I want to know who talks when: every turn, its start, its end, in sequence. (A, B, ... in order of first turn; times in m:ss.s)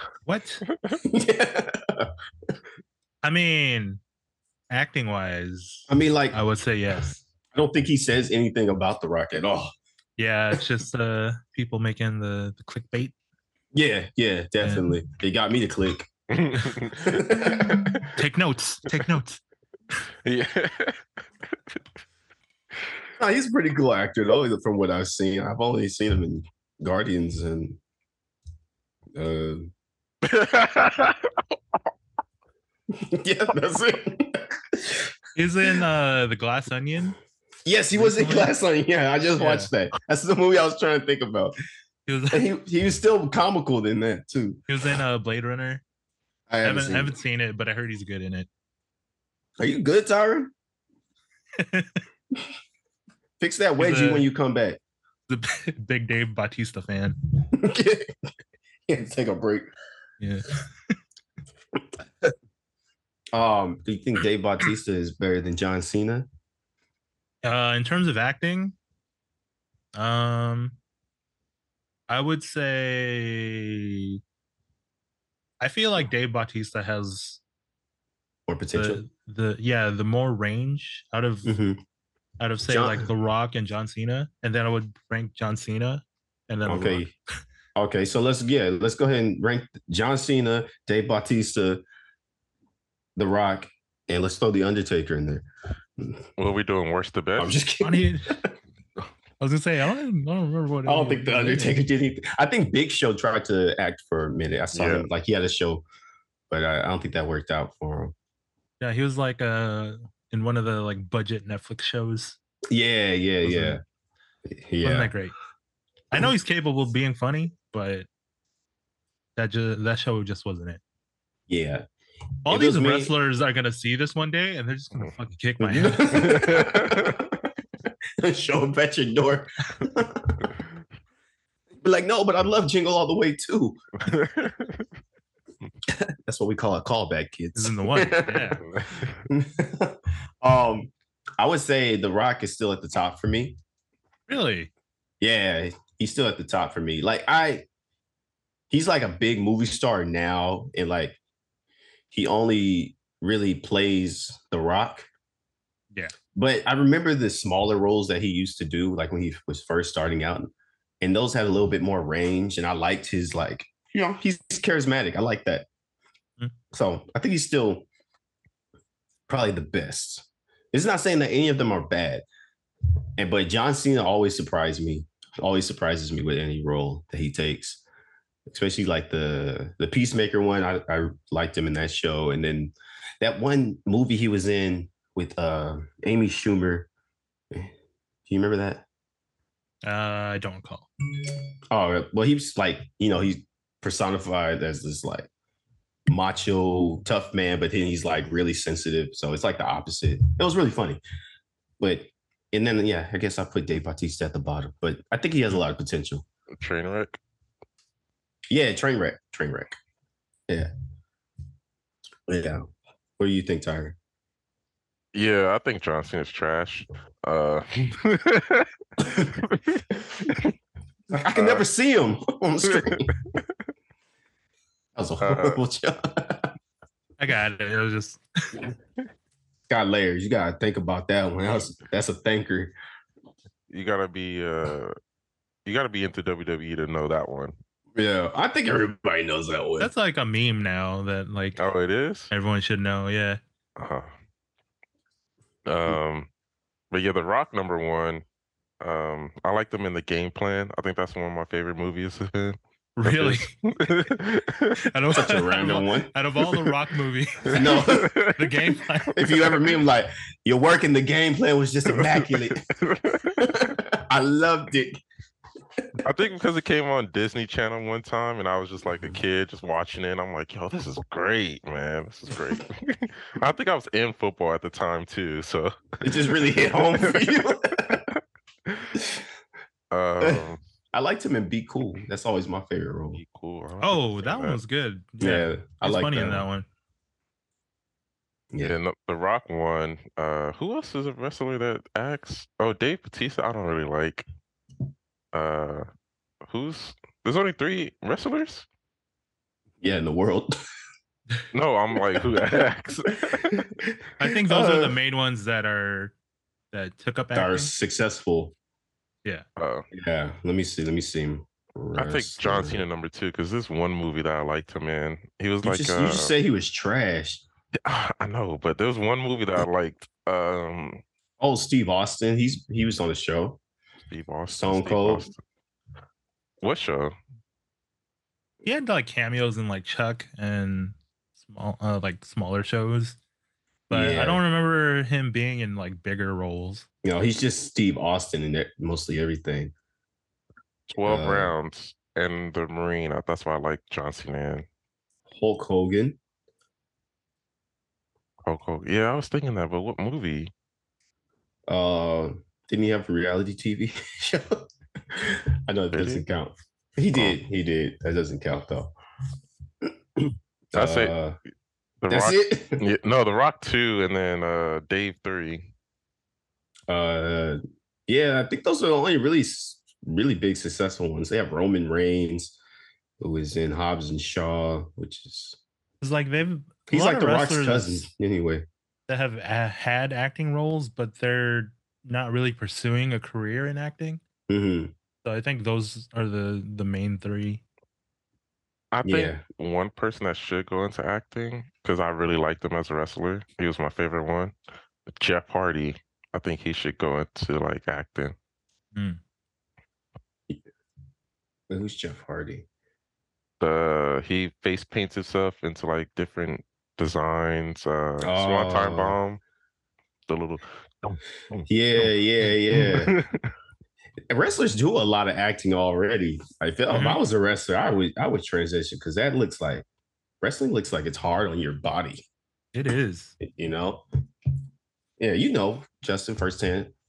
0:00.3-0:00.6 A
0:00.7-0:01.0 B
0:01.0-0:02.1 C
0:03.2-0:04.0 A
0:04.7-0:07.2 A
0:05.9-0:06.4 C
0:07.5-0:09.7 C
0:10.2-0:13.1 A
0:13.7-0:16.1 C
0:14.6-0:14.9 A
0:16.3-0:18.1 B
0:16.9-0:18.1 C
0:18.1-0:19.4 A
0:20.2-0:21.8 B
0:23.2-0:27.8 C
0:29.2-0:29.7 C
0:30.2-0:31.6 B
0:32.9-0:35.1 C
0:35.4-0:37.2 A
0:37.7-0:41.6 C
0:38.0-0:38.5 A
0:39.4-0:39.7 A
0:42.1-0:42.5 A
0:42.3-0:44.6 C
0:44.7-0:45.8 A
0:46.5-0:47.2 C
0:46.6-0:48.5 A
0:49.6-0:50.5 C
0:51.6-0:52.0 A
0:53.4-0:54.8 C
0:53.8-0:54.3 A
0:55.3-0:57.2 A
0:57.5-0:58.1 C
0:58.9-0:59.7 C
1:00.2-1:01.0 A
1:03.3-1:06.3 C
1:07.4-1:08.8 A
1:10.0-1:10.8 A
1:12.1-1:14.2 A
1:15.6-1:17.4 A
1:18.5-1:19.0 C
1:18.8-1:21.5 A
1:21.4-1:21.8 C
1:22.4-1:27.1 A
1:22.7-1:23.1 C
1:26.7-1:27.1 C
1:27.8-1:31.8 C
1:33.2-1:35.5 C
1:36.4-1:37.6 B
1:37.4-1:38.5 C
1:37.8-1:38.3 A
1:39.4-1:41.8 A
1:40.9-1:45.8 C
1:44.7-1:45.1 B
1:46.5-1:48.1 C
1:48.8-1:52.4 A
1:52.7-1:53.8 C
1:53.4-1:53.8 A
1:54.5-1:55.1 C
1:54.8-1:55.4 A
1:56.1-1:58.1 A
1:59.4-2:00.8 A
2:01.5-2:01.9 C
2:02.5-2:06.4 A
2:02.5-2:03.1 C
2:05.6-2:07.3 C
2:06.2-2:07.2 B
2:08.2-2:10.6 C
2:11.8-2:13.8 C
2:14.0-2:14.9 B
2:15.9-2:23.6 C
2:17.6-2:18.6 A
2:18.6-2:19.2 B
2:24.3-2:24.7 A
2:25.2-2:27.7 C
2:28.7-2:31.2 C
2:32.1-2:35.1 C
2:36.4-2:40.5 C
2:41.0-2:45.7 C
2:46.7-2:47.9 C
2:49.3-2:52.2 C
2:53.2-2:57.8 C
2:58.5-3:06.9 C
3:08.3-3:08.8 C
3:09.8-3:10.9 A
3:11.7-3:15.3 C
3:16.1-3:21.0 C
3:21.8-3:26.2 C
3:26.5-3:27.2 B
3:28.5-3:29.8 C
3:32.3-3:34.0 C
3:35.1-3:40.5 B
3:41.1-3:43.1 C
3:41.3-3:41.7 B
3:42.7-3:43.5 B
3:45.0-3:46.5 C
3:45.2-3:45.6 B
3:47.2-3:48.6 A
3:49.7-3:52.7 C
3:53.7-3:55.0 B
3:55.7-3:57.6 B
3:58.0-3:59.9 C
3:59.8-4:01.6 A
4:01.6-4:02.3 B
4:02.3-4:03.4 A
4:03.8-4:04.1 B
4:05.6-4:06.3 B
4:06.9-4:08.2 B
4:08.8-4:14.8 B
4:13.0-4:13.5 A
4:14.8-4:19.6 A
4:15.1-4:16.1 C
4:16.4-4:16.8 B
4:17.4-4:18.9 B
4:17.5-4:18.2 C
4:19.1-4:22.7 C
4:21.9-4:23.4 B
4:23.3-4:25.0 C
4:26.0-4:39.0 B
4:36.0-4:38.0 C
4:39.9-4:40.6 B
4:40.2-4:43.2 C
4:43.1-4:44.6 B
4:43.8-4:46.7 A
4:45.2-4:46.5 C
4:48.6-4:54.3 B
4:55.3-4:55.8 B
4:56.4-4:58.7 B
4:59.8-5:00.5 C
5:01.5-5:03.6 B
5:03.5-5:03.9 C
5:04.2-5:06.1 A
5:04.5-5:05.0 C
5:06.7-5:07.7 A
5:07.3-5:08.5 C
5:09.6-5:09.8 B
5:09.9-5:12.8 C
5:12.0-5:16.3 B
5:15.6-5:17.4 C
5:17.8-5:21.0 B
5:21.4-5:23.6 C
5:24.1-5:25.4 B
5:24.5-5:25.3 C
5:26.6-5:27.2 B
5:28.6-5:33.2 A
5:33.9-5:36.9 A
5:33.9-5:34.4 C
5:37.0-5:39.7 C
5:40.9-5:44.7 B
5:41.0-5:41.5 C
5:45.3-5:46.2 C
5:48.5-5:50.5 B
5:51.7-5:58.9 C
5:55.9-5:56.2 B
6:00.2-6:01.4 C
6:00.8-6:01.2 B
6:02.0-6:05.7 B
6:02.1-6:02.8 C
6:06.9-6:12.6 C
6:13.2-6:15.6 C
6:16.0-6:18.1 A
6:16.9-6:18.7 C
6:19.1-6:24.2 A
6:24.5-6:24.9 C
6:25.2-6:27.6 A
6:28.9-6:34.5 B
6:29.0-6:29.4 C
6:35.1-6:38.4 B
6:39.0-6:39.2 A
6:41.7-6:42.7 C
6:43.6-6:49.4 B
6:48.2-6:49.2 C
6:50.3-6:53.5 B
6:51.7-6:53.2 C
6:54.3-6:59.8 C
6:56.9-6:57.2 A
7:00.4-7:02.2 C
7:02.7-7:03.4 A
7:03.4-7:04.0 C
7:05.2-7:06.9 C